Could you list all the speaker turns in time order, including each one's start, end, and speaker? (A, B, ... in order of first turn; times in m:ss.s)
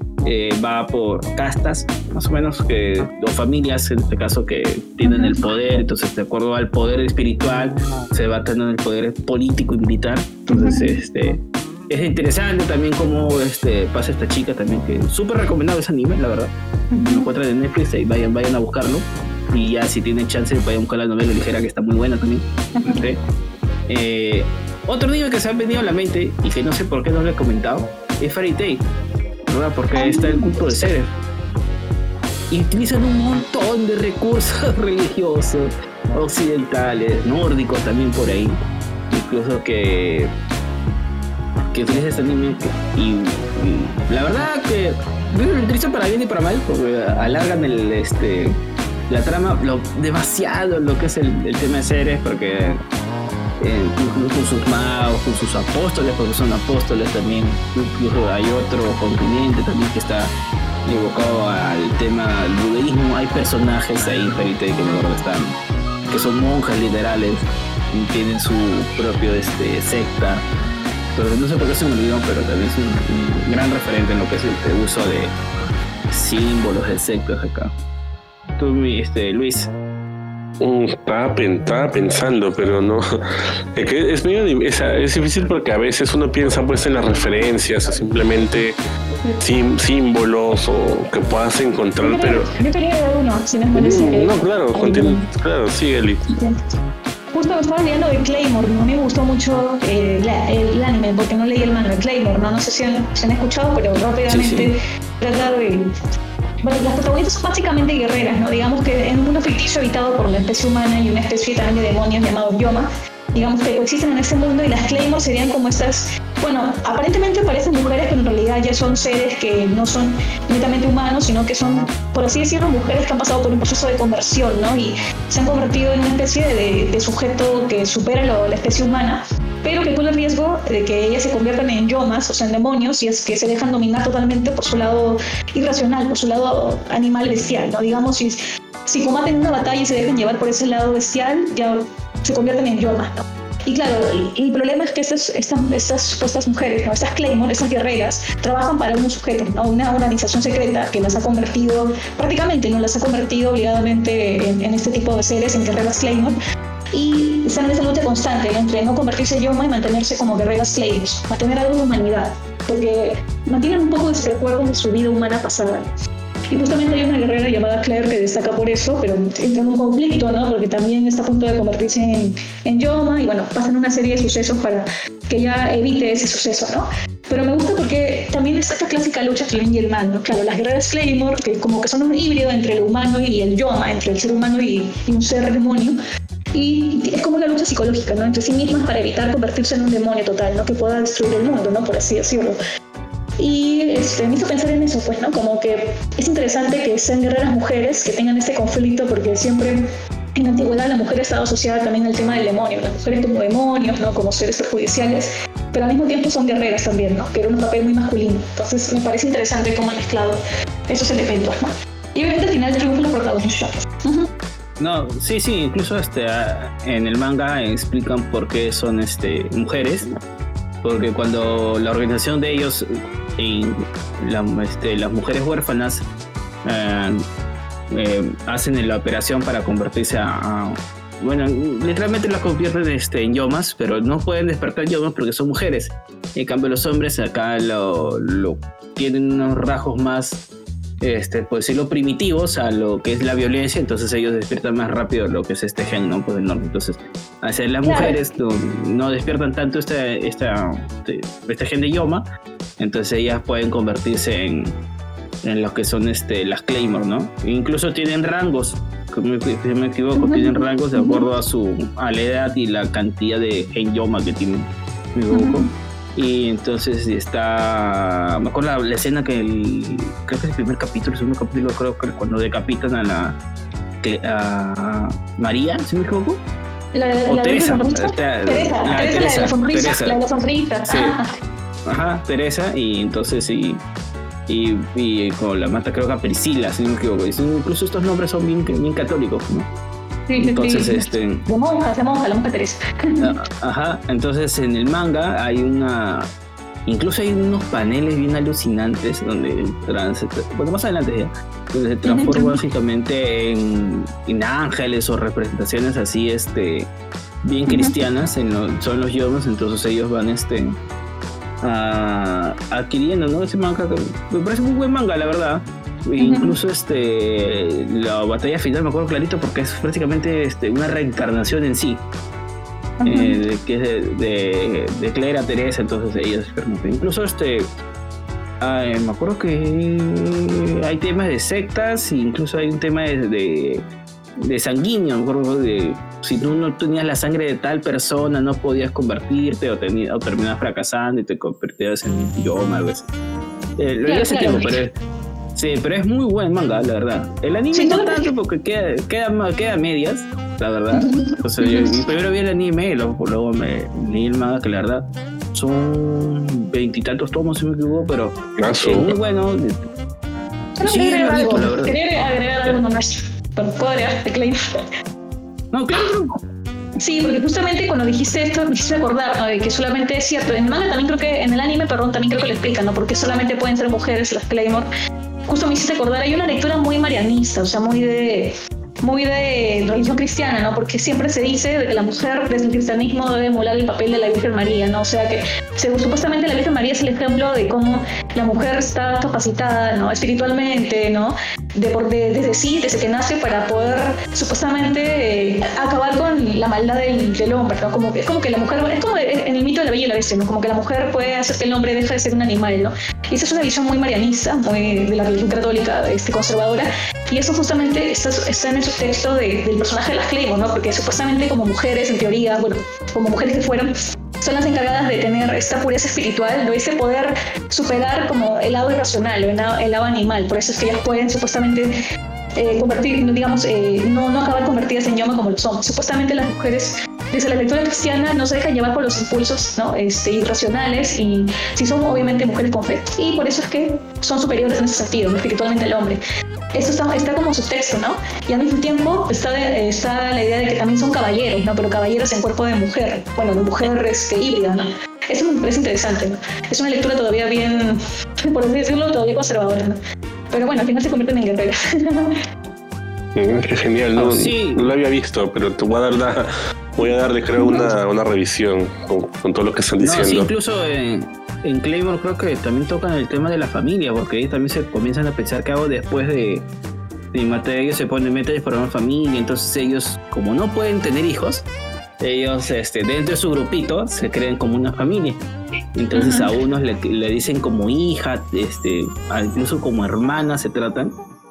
0:00.2-0:16.5 A
0:05.0-0:05.4 B
0:10.5-0:11.0 B
0:16.9-0:17.3 B
0:17.1-0:23.2 A
0:22.8-0:23.0 B
0:23.9-0:28.9 A
0:29.5-0:31.1 A
0:30.0-0:30.8 B
0:32.5-0:38.6 A
0:39.1-0:40.3 A
0:41.7-0:52.8 A
0:53.6-1:00.3 A
1:00.9-1:05.6 A
1:06.1-1:10.5 A
1:11.1-1:15.4 A
1:16.1-1:17.7 A
1:18.6-1:19.7 A
1:20.6-1:23.0 C
1:23.8-1:28.8 C
1:29.4-1:32.5 C
1:32.0-1:35.2 B
1:33.7-1:36.2 C
1:36.3-1:36.6 B
1:37.3-1:45.8 B
1:44.3-1:44.7 A
1:46.6-2:36.4 B
2:36.9-2:45.9 B
2:46.5-3:06.0 B
3:06.5-3:12.6 B
3:13.4-3:19.8 B
3:20.4-3:31.6 B
3:32.2-3:34.3 B
3:34.8-3:40.1 A
3:40.8-3:46.1 A
3:46.6-3:47.3 A
3:47.9-4:00.4 A
4:01.0-4:12.3 A
4:07.8-4:08.2 B
4:12.8-4:14.8 A
4:15.4-4:33.4 A
4:20.2-4:21.3 B
4:25.3-4:25.7 B
4:34.0-4:36.4 A
4:36.9-4:41.3 B
4:37.3-4:40.2 A
4:40.9-4:41.2 A
4:41.9-4:43.8 A
4:44.5-4:49.7 A
4:50.3-4:53.2 B
4:50.4-4:51.4 A
4:53.2-4:56.3 A
4:56.9-5:06.9 A
5:02.0-5:02.6 B
5:07.4-5:10.8 A
5:07.7-5:08.0 B
5:11.6-5:22.0 A
5:16.2-5:16.5 B
5:23.0-5:23.4 B
5:23.0-5:27.7 A
5:28.6-5:33.9 A
5:34.4-5:43.1 A
5:43.8-5:45.0 A
5:44.1-5:44.7 B
5:45.6-5:59.8 A
5:47.7-5:48.3 B
5:50.9-5:51.9 B
5:58.6-5:59.1 C
6:00.8-6:04.6 B
6:00.9-6:02.0 A
6:05.7-6:06.4 A
6:07.0-6:14.9 B
6:15.5-7:02.0 B
7:02.6-7:16.2 B
7:16.7-7:28.0 B
7:28.5-7:30.0 B
7:30.5-7:32.4 B
7:33.4-7:36.4 C
7:34.2-7:34.9 A
7:37.0-7:40.5 C
7:37.6-7:37.9 B
7:40.0-7:46.7 A
7:47.3-7:51.7 A
7:52.2-7:55.4 A
7:56.0-8:01.2 A
7:56.2-7:56.5 B